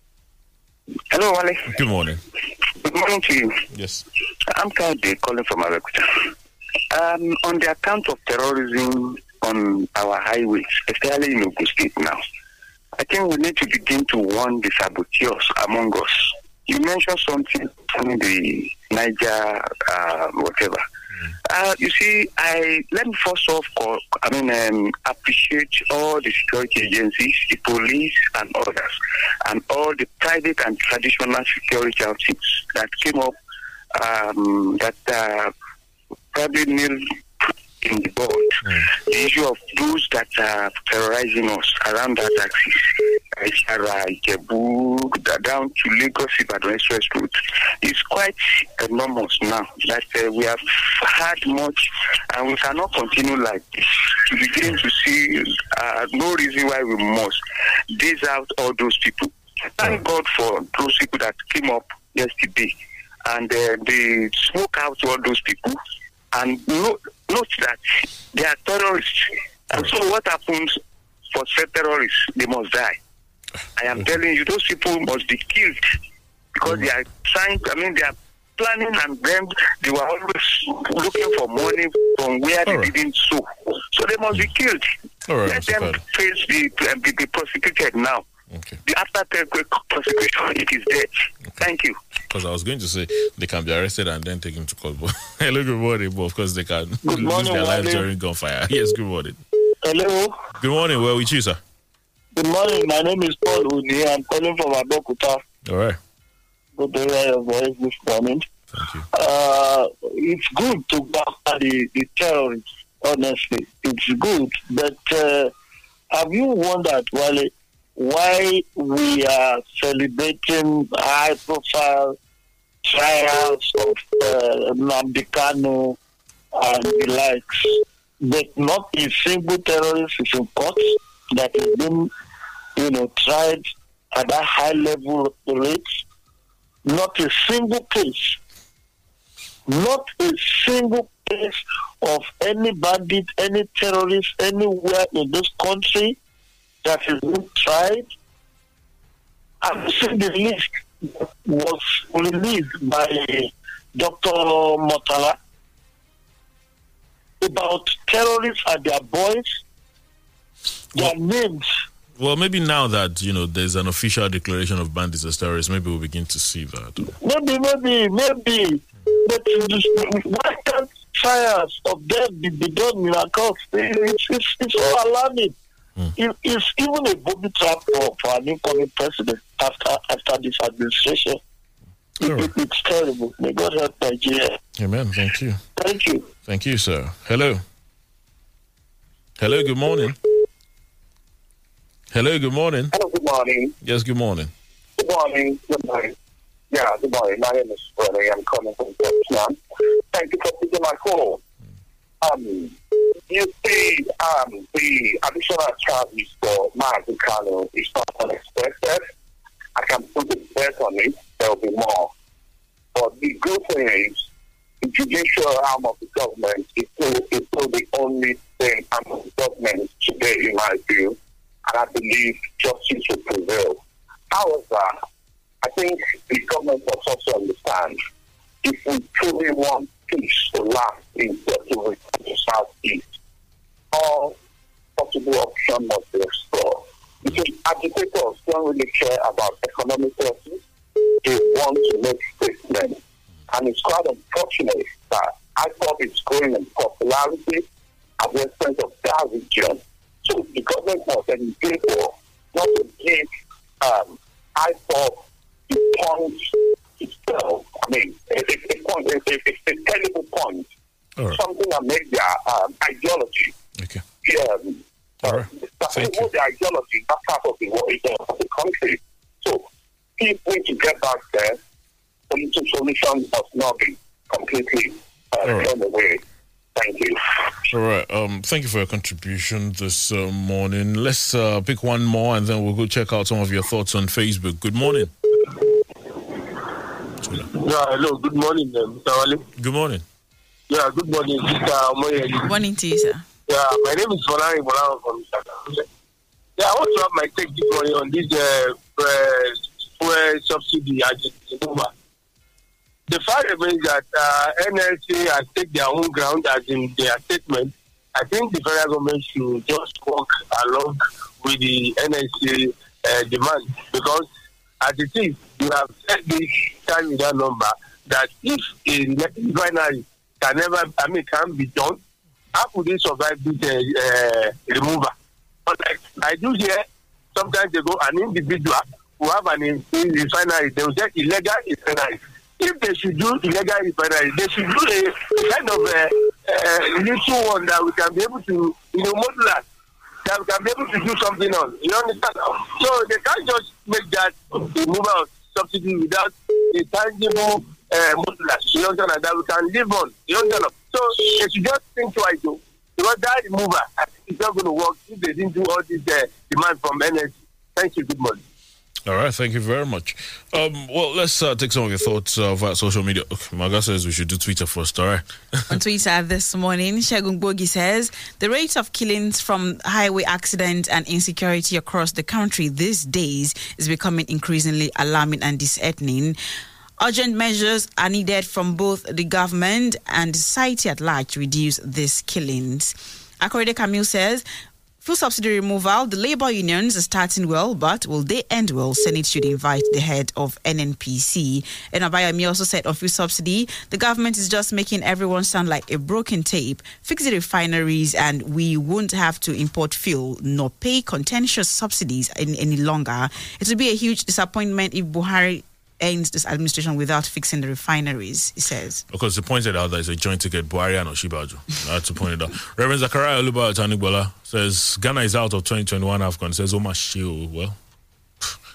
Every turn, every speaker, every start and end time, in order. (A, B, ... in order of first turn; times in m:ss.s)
0:01.1-0:01.7 A
0:01.7-0:02.2 B
0:02.8-0:03.6 A
0:03.7-0:04.0 B
0:04.5-0:06.3 A
0:06.9-0:12.2 A
0:13.0-0:20.8 A
0:21.5-0:28.9 A
0:29.4-0:33.3 A
0:33.9-0:35.5 A
0:36.3-0:37.0 A
0:37.8-0:57.4 A
0:38.6-0:38.9 B
0:57.9-1:02.7 A
1:03.2-1:05.8 A
1:06.3-1:07.8 A
1:08.3-1:10.8 A
1:11.3-1:13.0 A
1:13.8-1:15.8 A
1:16.6-1:24.9 A
1:22.6-1:22.9 B
1:25.3-1:26.0 B
1:25.4-1:28.2 A
1:28.5-1:28.8 B
1:28.8-1:32.0 A
1:32.3-1:39.4 B
1:37.0-1:38.1 C
1:39.8-1:40.4 C
1:40.6-1:41.6 B
1:42.3-1:45.4 C
1:45.6-1:46.0 B
1:46.8-1:48.5 C
1:48.7-1:49.0 B
1:49.1-1:55.5 C
1:56.1-2:02.2 C
2:02.8-2:06.0 C
2:06.6-2:12.1 C
2:12.8-2:16.0 C
2:16.8-2:18.4 C
2:19.7-2:26.2 C
2:26.8-2:28.1 C
2:29.6-2:35.4 C
2:37.4-2:39.6 C
2:40.9-2:41.7 C
2:42.2-2:47.1 B
2:47.2-2:55.5 C
2:56.2-3:01.4 C
3:02.2-3:02.5 B
3:02.2-3:04.6 C
3:04.8-3:05.6 B
3:05.8-3:06.3 C
3:06.4-3:07.6 B
3:09.4-3:10.2 B
3:12.1-3:12.9 B
3:12.9-3:13.7 D
3:13.8-3:14.5 B
3:15.0-3:16.1 D
3:16.7-3:19.6 D
3:20.1-3:21.4 D
3:22.2-3:22.8 D
3:23.3-3:29.0 D
3:29.8-3:32.1 D
3:32.9-3:34.2 D
3:34.8-3:43.8 D
3:44.3-3:44.9 D
3:45.6-3:48.0 D
3:48.6-3:53.0 D
3:53.9-3:54.4 D
3:55.0-4:00.6 D
4:01.2-4:03.0 D
4:03.5-4:07.6 D
4:08.2-4:13.3 D
4:13.8-4:20.7 D
4:21.3-4:23.5 D
4:24.2-4:29.6 D
4:25.2-4:26.2 B
4:30.2-4:31.6 D
4:32.3-4:36.2 D
4:35.4-4:35.7 B
4:36.8-4:37.2 D
4:37.7-4:45.1 B
4:47.5-4:49.4 E
4:49.6-4:50.0 B
4:50.7-4:52.5 E
4:52.4-4:53.2 F
4:53.5-4:55.8 E
4:56.6-5:01.9 E
5:03.1-5:14.3 E
5:14.8-5:22.0 E
5:22.5-5:25.1 E
5:25.6-5:39.6 E
5:40.2-5:58.4 E
5:59.0-6:05.8 B
6:05.7-6:16.4 F
6:17.0-6:24.4 F
6:25.0-6:49.0 F
6:49.1-6:57.8 B